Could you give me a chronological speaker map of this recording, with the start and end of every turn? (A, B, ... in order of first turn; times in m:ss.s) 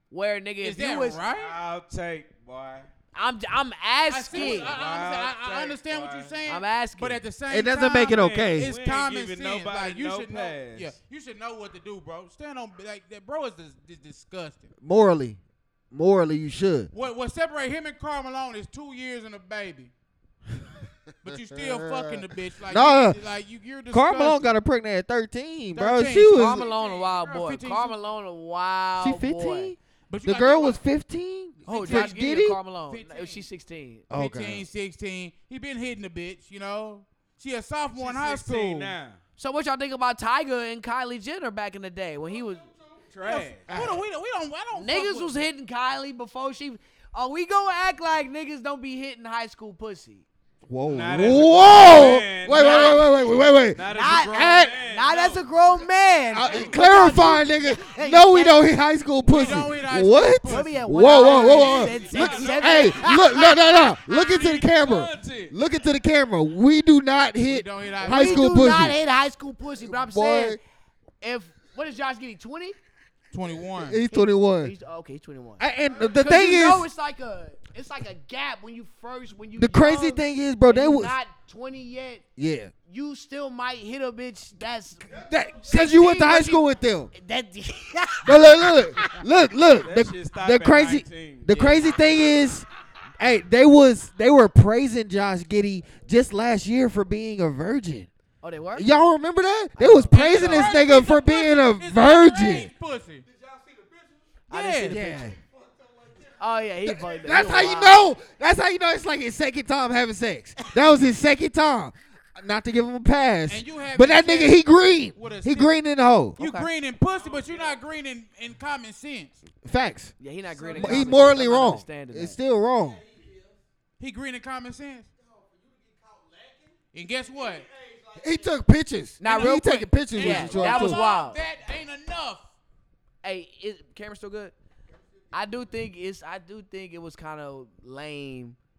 0:00.1-0:01.2 A
0:00.6-0:01.6 B
0:01.1-0:02.9 C
0:03.1-0:04.8 A
0:04.1-0:14.7 B
0:04.3-0:06.4 C
0:06.5-0:07.2 A
0:07.5-0:08.7 D
0:08.0-0:10.9 C
0:14.8-0:15.4 D
0:15.9-0:16.9 D
0:16.9-0:19.9 B
0:21.2-0:24.5 B
0:21.3-0:23.2 D
0:23.9-0:26.6 D
0:25.7-0:28.0 B
0:26.3-0:29.7 A
0:29.0-0:32.6 D
0:30.1-0:30.8 B
0:31.6-0:32.2 B
0:31.7-0:34.0 A
0:32.9-0:33.4 B
0:34.1-0:34.6 D
0:34.1-0:38.9 B
0:37.9-0:39.2 C
0:39.4-0:42.7 A
0:43.1-0:44.0 C
0:43.2-0:45.4 B
0:44.7-0:50.2 A
0:50.7-0:53.8 D
0:50.8-0:55.5 C
0:52.6-0:53.0 A
0:53.8-0:58.6 A
0:54.4-0:54.7 D
0:56.3-1:09.0 D
0:56.4-0:56.8 C
0:59.3-1:02.3 B
1:00.4-1:04.3 A
1:01.4-1:03.2 C
1:04.3-1:05.5 C
1:07.4-1:08.6 B
1:08.0-1:10.6 A
1:09.8-1:10.6 D
1:11.2-1:12.8 A
1:13.3-1:14.0 B
1:13.8-1:14.7 D
1:14.1-1:22.2 A
1:15.6-1:16.9 D
1:19.6-1:21.2 D
1:22.4-1:22.7 D
1:22.9-1:29.2 A
1:25.1-1:27.1 D
1:28.2-1:32.7 D
1:29.7-1:32.0 C
1:33.2-1:38.1 D
1:38.4-1:38.9 A
1:38.7-1:42.7 D
1:39.8-1:40.8 A
1:40.1-1:43.2 B
1:44.5-1:45.1 B
1:44.5-1:45.2 A
1:44.8-1:45.4 D
1:46.3-1:48.0 A
1:46.8-1:56.4 D
1:53.5-1:54.6 B
1:55.1-1:55.7 B
1:56.4-1:59.4 B
1:56.4-1:56.7 A
1:57.1-1:57.8 C
1:59.6-2:00.1 D
2:00.2-2:02.4 A
2:00.6-2:01.3 B
2:00.7-2:03.0 D
2:04.0-2:05.1 B
2:06.9-2:07.7 B
2:08.1-2:11.0 D
2:09.2-2:11.4 A
2:09.2-2:12.5 B
2:13.2-2:14.5 A
2:15.3-2:18.6 A